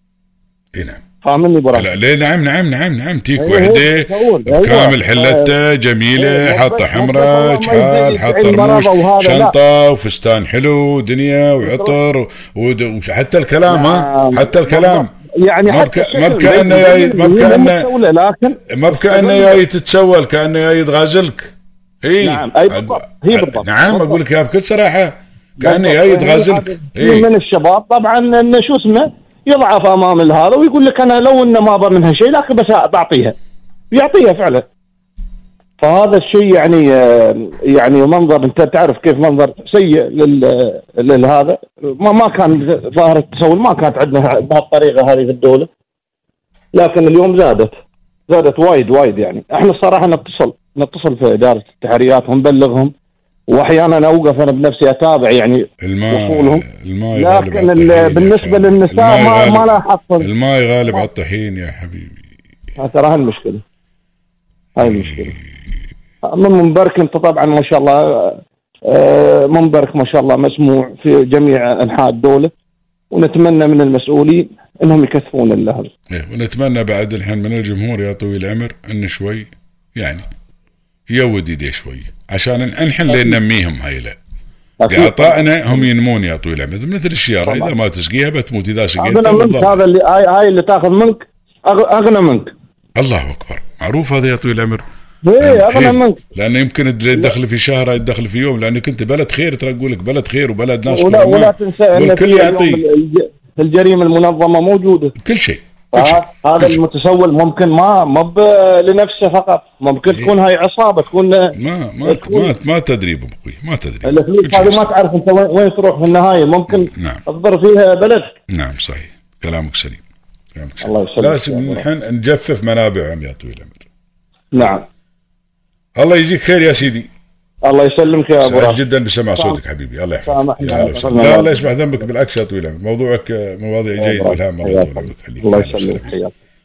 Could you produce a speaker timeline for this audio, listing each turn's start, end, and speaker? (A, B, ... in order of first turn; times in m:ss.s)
0:00.8-0:01.0 A
0:01.2-0:01.9 B
0:01.7-0:15.1 A
0:03.4-0:05.6 B
0:06.2-0:09.6 B
0:11.6-0:12.0 B
0:13.7-0:19.6 B
0:15.7-0:17.9 A
0:18.7-0:21.5 A
0:22.0-0:27.3 A
0:22.2-0:24.2 B
0:25.6-0:33.4 B
0:33.9-0:34.7 B
0:35.8-0:45.7 B
0:46.7-0:47.7 B
0:48.3-0:52.9 B
0:53.5-1:00.3 B
0:55.8-1:02.2 A
1:02.8-1:03.6 B
1:04.8-1:05.4 B
1:06.2-1:12.5 B
1:13.1-1:15.9 B
1:16.1-1:20.2 A
1:21.1-1:24.2 A
1:23.1-1:23.4 B
1:24.8-1:25.9 B
1:24.9-1:29.8 A
1:27.4-1:27.7 B
1:29.0-1:32.5 B
1:33.0-1:34.8 A
1:35.2-1:36.2 B
1:35.4-1:42.8 A
1:40.9-1:45.1 B
1:45.2-1:46.8 A
1:45.9-1:52.5 B
1:50.1-1:50.3 A
1:51.6-1:54.9 A
1:54.0-1:58.3 B
1:56.8-1:57.2 A
1:58.5-2:00.0 A
2:00.6-2:03.8 A
2:00.8-2:01.9 B
2:04.5-2:04.8 B
2:06.0-2:07.1 A
2:07.6-2:08.8 B
2:08.4-2:16.1 A
2:09.4-2:09.6 B
2:10.3-2:11.7 B
2:14.0-2:16.3 B